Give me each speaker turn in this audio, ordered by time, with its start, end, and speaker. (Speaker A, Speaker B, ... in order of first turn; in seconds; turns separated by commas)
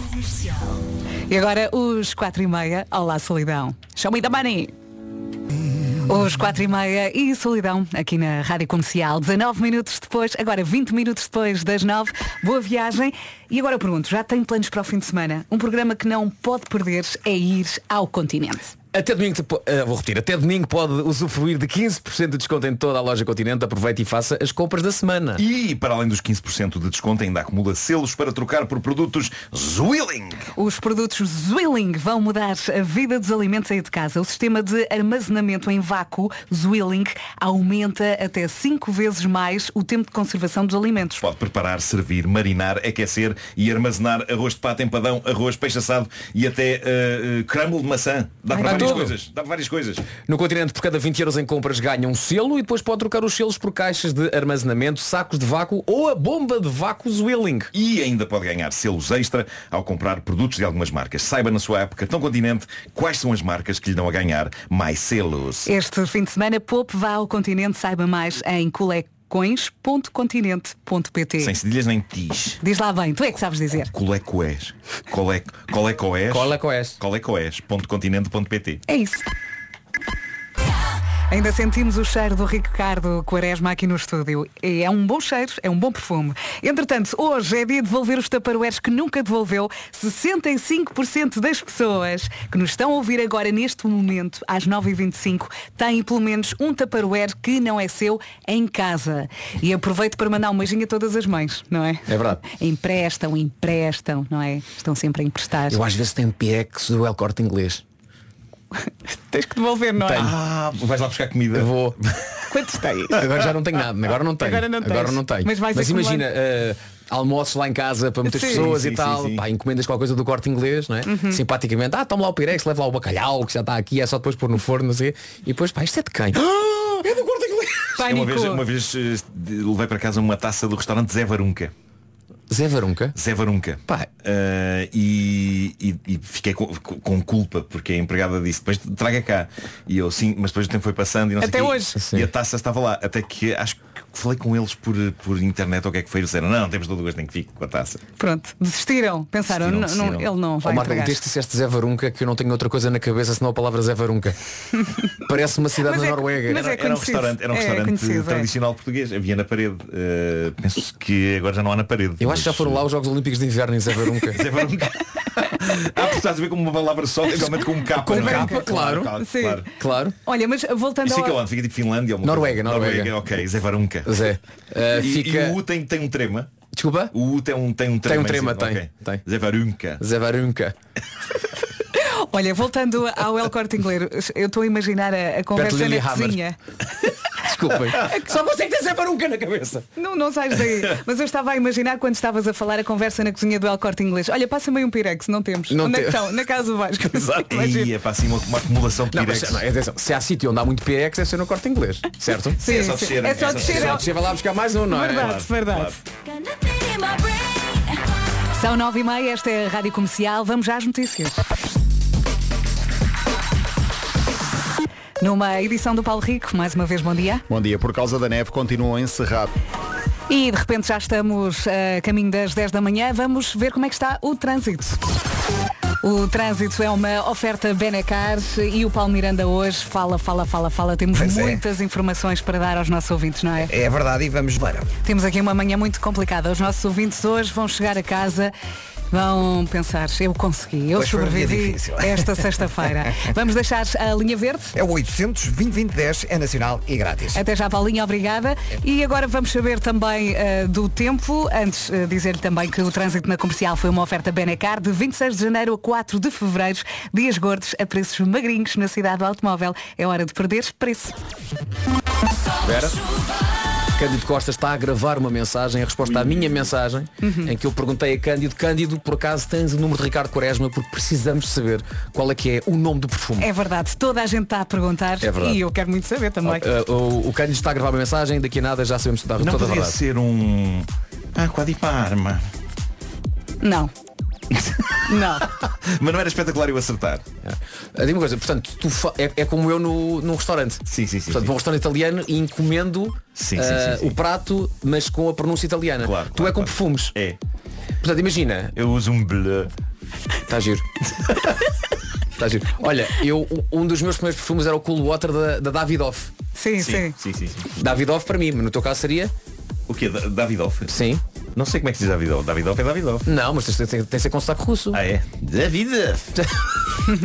Speaker A: 1.3-4.7, Speaker A: 5.9-18.7, Speaker B: 18.9-25.4, Speaker C: 25.4-30.5, Speaker A: 30.6-41.2, Speaker C: 41.2-50.2, Speaker B: 48.5-49.1, Speaker A: 48.6-48.9, Speaker B: 50.2-57.7, Speaker C: 57.7-65.7, Speaker A: 65.7-71.5, Speaker C: 71.4-72.6, Speaker A: 72.6-73.9, Speaker C: 73.9-78.8, Speaker B: 76.3-77.0, Speaker A: 78.9-79.2, Speaker A: 81.3-105.8, Speaker B: 102.1-102.4, Speaker B: 105.7-107.8, Speaker A: 108.8-110.3, Speaker B: 110.1-110.3, Speaker C: 110.1-112.3, Speaker B: 111.5-112.0, Speaker A: 112.5-113.2, Speaker B: 113.1-128.0, Speaker A: 114.4-116.2, Speaker A: 118.3-118.7, Speaker C: 118.4-119.4, Speaker A: 121.0-121.4, Speaker A: 128.0-128.7, Speaker C: 128.0-131.7, Speaker B: 132.5-133.2, Speaker C: 133.1-148.0, Speaker A: 141.4-142.0, Speaker B: 141.9-142.3, Speaker A: 148.2-151.2, Speaker C: 149.4-150.3, Speaker B: 150.6-154.3, Speaker B: 155.2-156.7, Speaker A: 155.8-158.5, Speaker C: 156.5-162.8, Speaker B: 162.2-164.4, Speaker C: 164.3-169.7, Speaker B: 167.3-169.2, Speaker A: 168.1-169.6, Speaker B: 169.8-170.1, Speaker A: 170.2-171.4, Speaker C: 171.0-174.2, Speaker B: 172.2-173.1, Speaker B: 174.1-175.6, Speaker C: 174.9-176.6, Speaker B: 176.7-177.1, Speaker C: 177.1-180.0, Speaker B: 178.0-179.2, Speaker B: 180.0-180.7, Speaker A: 181.9-186.6, Speaker B: 185.5-186.4, Speaker B: 187.4-189.8, Speaker A: 189.9-197.9, Speaker B: 195.7-196.3, Speaker C: 197.1-199.6, Speaker B: 199.1-202.7, Speaker A: 202.6-204.0, Speaker C: 202.6-204.1, Speaker B: 203.4-205.4, Speaker A: 204.9-206.0, Speaker C: 205.1-206.0, Speaker A: 206.8-207.8, Speaker A: 208.5-211.4, Speaker A: 215.2-217.4, Speaker D: 217.5-219.5, Speaker A: 220.3-225.0, Speaker A: 226.0-233.7, Speaker E: 231.1-231.6, Speaker E: 233.7-234.9, Speaker A: 235.0-238.5, Speaker A: 239.1-244.8, Speaker E: 240.9-243.2, Speaker E: 244.7-247.4, Speaker A: 247.3-261.1, Speaker B: 262.6-263.0, Speaker B: 263.9-273.5, Speaker A: 267.2-267.5, Speaker A: 273.4-276.6, Speaker B: 275.2-275.6, Speaker B: 276.4-280.0, Speaker C: 279.4-282.4, Speaker A: 283.6-283.9, Speaker C: 284.5-284.9, Speaker A: 285.1-285.5, Speaker C: 285.4-287.2, Speaker B: 287.4-297.1, Speaker C: 290.9-291.5, Speaker C: 293.3-294.1, Speaker C: 296.0-297.4, Speaker B: 298.0-298.8, Speaker C: 298.7-299.7, Speaker B: 300.5-300.8, Speaker B: 302.4-306.3, Speaker A: 306.5-307.1, Speaker C: 306.8-307.7, Speaker B: 307.7-309.3, Speaker C: 309.9-310.9, Speaker B: 310.9-311.2, Speaker C: 311.5-313.3, Speaker B: 313.2-315.0, Speaker C: 314.9-316.3